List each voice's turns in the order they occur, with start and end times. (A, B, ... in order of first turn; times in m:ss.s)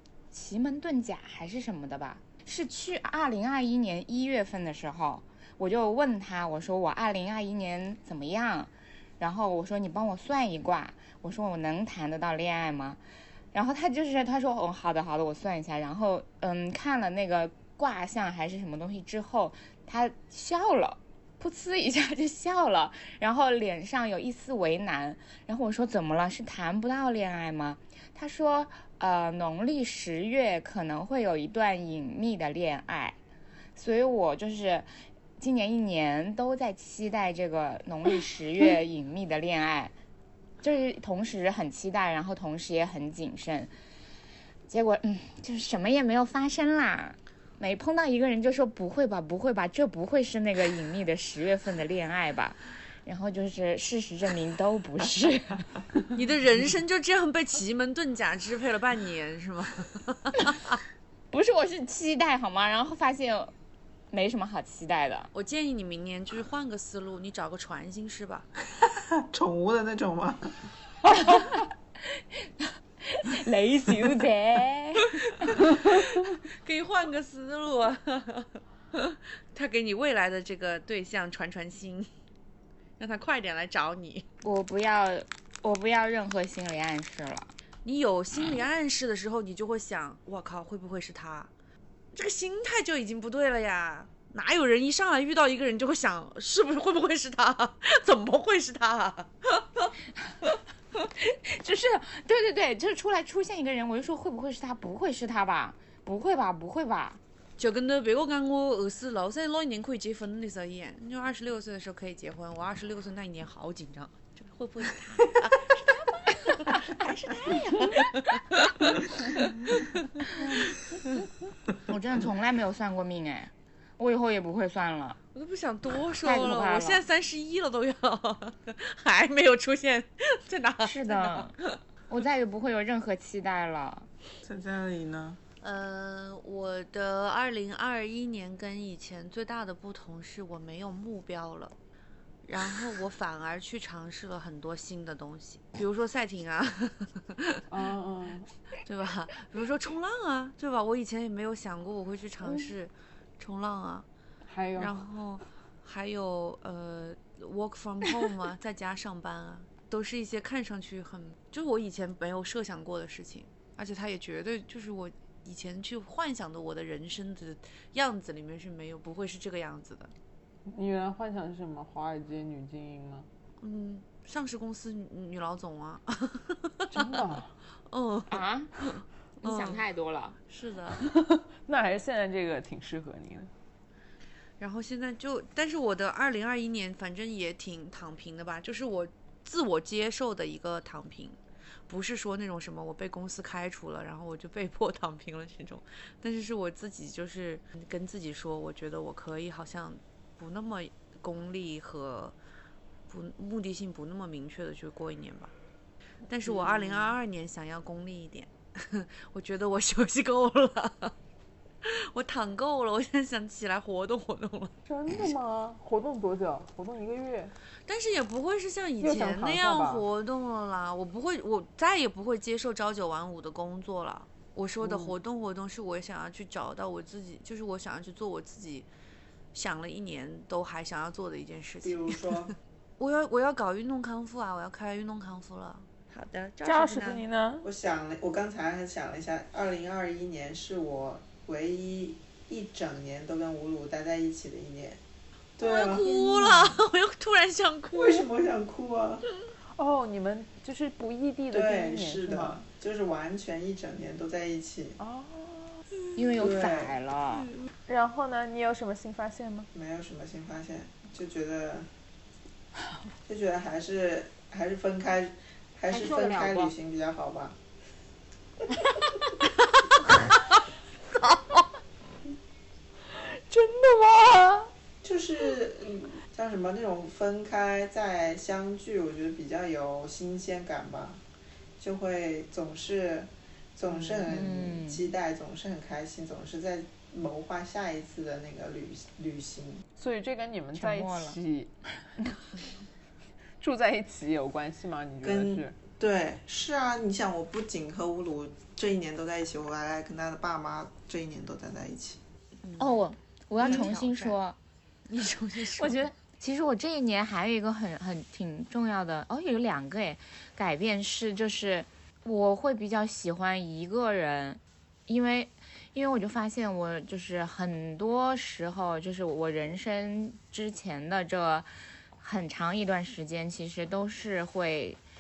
0:00.3-0:13.0 A
0:13.5-0:33.2 A
0:33.8-0:34.9 A
0:35.4-0:39.9 A
0:40.6-0:43.7 A
0:44.7-0:55.7 A
0:56.1-1:00.8 B
1:01.3-1:03.5 A
1:04.1-1:05.3 A
1:05.3-1:08.5 B
1:08.8-1:10.6 C
1:11.2-1:11.6 A
1:13.0-1:15.1 A
1:15.4-1:22.1 B
1:23.0-1:24.3 B
1:24.4-1:27.5 A
1:27.8-1:31.5 B
1:32.1-1:39.9 B
1:41.2-1:47.2 A
1:47.6-2:01.3 B
2:01.9-2:05.2 A
2:05.3-2:11.8 B
2:06.2-2:07.0 A
2:10.8-2:11.5 A
2:12.1-2:14.1 A
2:14.4-2:15.4 C
2:15.6-2:21.7 B
2:22.4-2:27.6 B
2:27.7-2:28.5 D
2:28.8-2:34.1 B
2:34.5-2:35.0 D
2:34.8-2:50.1 B
2:50.7-2:53.3 D
2:53.6-2:57.1 B
2:56.9-2:57.5 D
2:57.9-2:59.8 B
2:58.3-2:58.7 A
2:59.4-3:00.4 A
3:00.5-3:01.0 B
3:00.9-3:03.5 D
3:04.6-3:22.4 B
3:23.1-3:25.5 B
3:26.3-3:31.2 B
3:26.5-3:27.1 D
3:31.8-3:35.2 B
3:34.9-3:37.5 D
3:37.9-3:48.9 B
3:39.0-3:40.0 D
3:44.8-3:45.2 D
3:49.5-3:52.4 B
3:51.8-3:52.5 C
3:53.0-3:57.2 B
3:56.6-3:57.7 D
3:57.6-4:05.0 C
4:05.6-4:06.6 C
4:05.6-4:08.2 B
4:07.9-4:09.3 C
4:09.8-4:12.6 D
4:11.5-4:15.0 C
4:15.0-4:15.8 D
4:16.2-4:17.5 A
4:16.4-4:17.0 C
4:17.9-4:19.7 D
4:19.7-4:21.9 C
4:23.2-4:27.6 C
4:25.9-4:26.7 A
4:31.2-4:31.6 B
4:33.1-4:34.7 D
4:35.0-4:41.2 C
4:41.8-4:49.8 C
4:44.2-4:45.1 A
4:50.0-4:51.7 D
4:50.8-4:51.4 A
4:53.6-4:55.7 D
4:55.2-5:02.2 C
5:02.6-5:02.9 B
5:02.8-5:04.6 A
5:03.6-5:04.4 B
5:05.1-5:06.0 B
5:05.8-5:25.0 A